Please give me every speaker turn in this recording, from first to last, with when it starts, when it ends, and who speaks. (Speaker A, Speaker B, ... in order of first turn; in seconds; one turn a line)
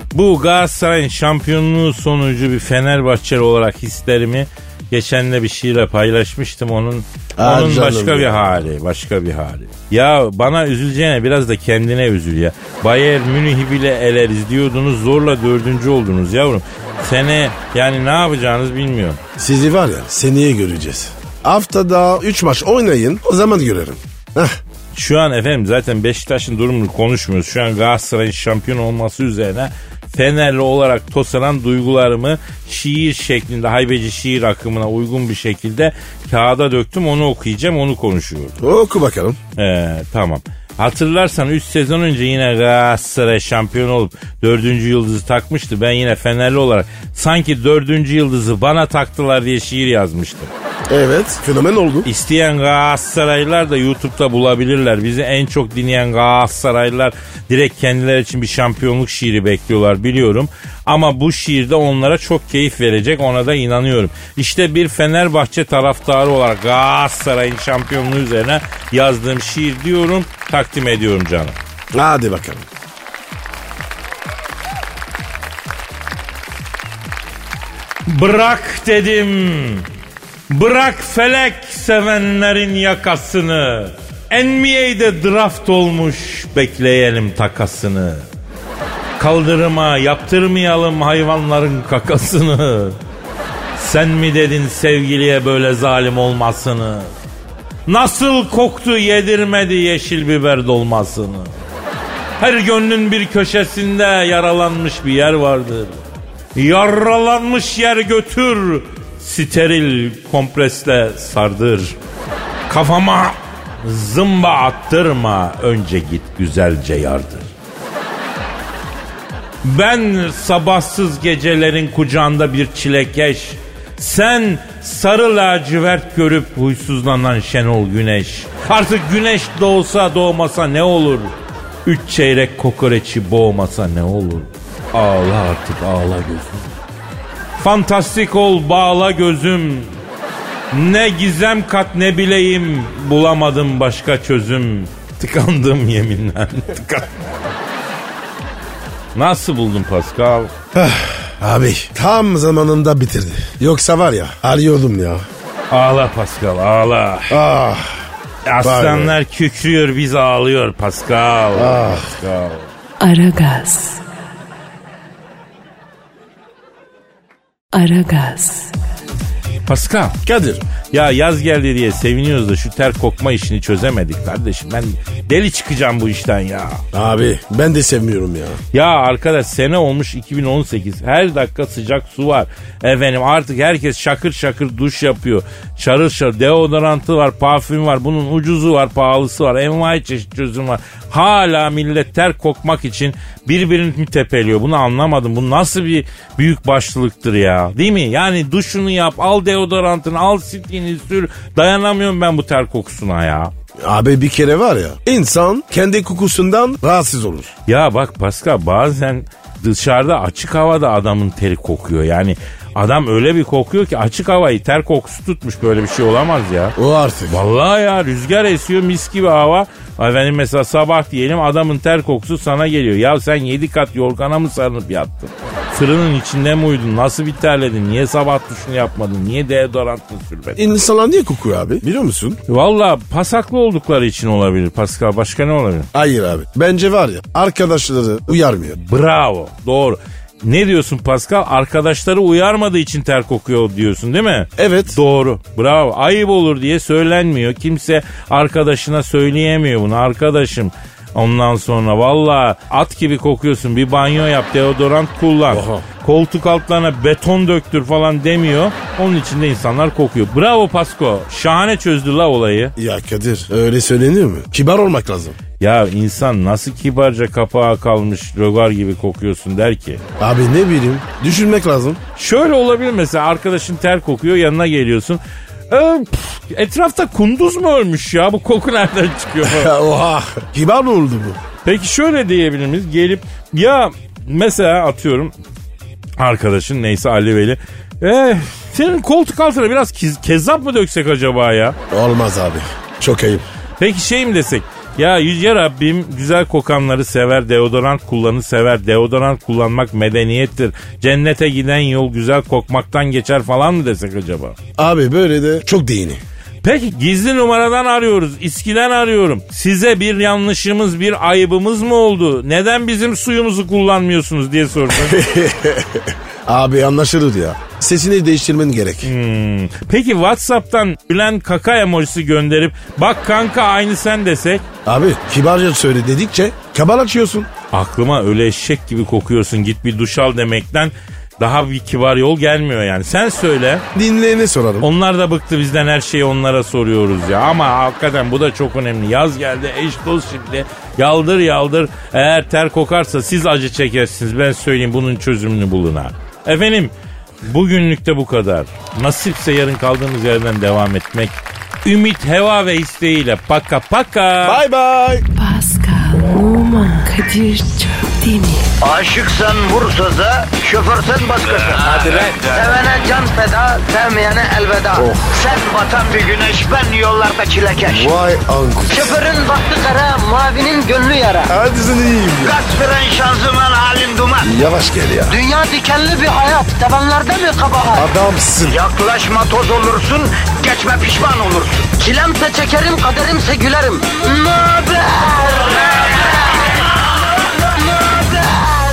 Speaker A: 0.1-19.2
Speaker B: 7.4-8.6
Speaker B: 19.4-24.6
Speaker A: 24.9-38.5
Speaker B: 38.6-39.4
Speaker A: 39.6-50.5
Speaker B: 50.9-52.1
Speaker A: 52.0-71.6
Speaker B: 71.9-72.6
Speaker A: 78.1-79.9
Speaker A: 80.5-88.3
Speaker A: 89.2-93.0
Speaker A: 93.8-97.1
Speaker A: 97.9-101.5
Speaker A: 102.4-106.0
Speaker A: 106.5-112.0
Speaker A: 112.7-117.5
Speaker A: 119.6-136.7
Speaker A: 137.6-139.9
Speaker A: 140.7-147.4
Speaker A: 149.1-150.5
Speaker B: 150.7-155.3
Speaker A: 155.7-157.4
Speaker B: 157.3-158.1
Speaker A: 158.4-162.7
Speaker B: 158.6-159.2
Speaker B: 161.5-162.1
Speaker C: 163.0-164.0
Speaker C: 167.7-168.8
Speaker A: 169.7-170.2
Speaker B: 170.2-170.7
Speaker A: 170.9-176.8
Speaker B: 176.9-178.6
Speaker A: 178.7-203.5
Speaker B: 203.8-207.5
Speaker A: 207.7-216.8
Speaker B: 216.8-217.4
Speaker A: 217.3-230.6
Speaker B: 230.6-232.4
Speaker A: 232.5-235.9
Speaker B: 235.9-238.8
Speaker A: 238.7-262.8
Speaker B: 244.6-245.0
Speaker B: 255.5-255.8
Speaker B: 262.8-265.4
Speaker A: 265.6-270.0
Speaker B: 270.2-272.0
Speaker A: 272.1-279.7
Speaker B: 279.4-281.4
Speaker A: 281.6-285.3
Speaker A: 286.2-291.8
Speaker B: 291.9-293.4
Speaker A: 293.8-304.6
Speaker B: 304.8-306.2
Speaker A: 306.6-315.2
Speaker B: 314.9-319.1
Speaker A: 319.0-324.6
Speaker B: 324.9-327.5
Speaker A: 327.7-333.9
Speaker B: 333.9-334.9
Speaker A: 334.8-346.9
Speaker A: 347.4-354.6
Speaker B: 354.4-355.3
Speaker C: 355.4-358.7
Speaker D: 358.8-368.2
Speaker B: 362.1-362.4
Speaker B: 364.9-365.4
Speaker B: 367.9-369.2
Speaker D: 368.9-371.5
Speaker B: 371.5-372.6
Speaker D: 372.4-374.5
Speaker B: 374.4-375.4
Speaker D: 375.3-378.1
Speaker B: 377.9-378.8
Speaker D: 378.6-386.6
Speaker D: 387.9-388.7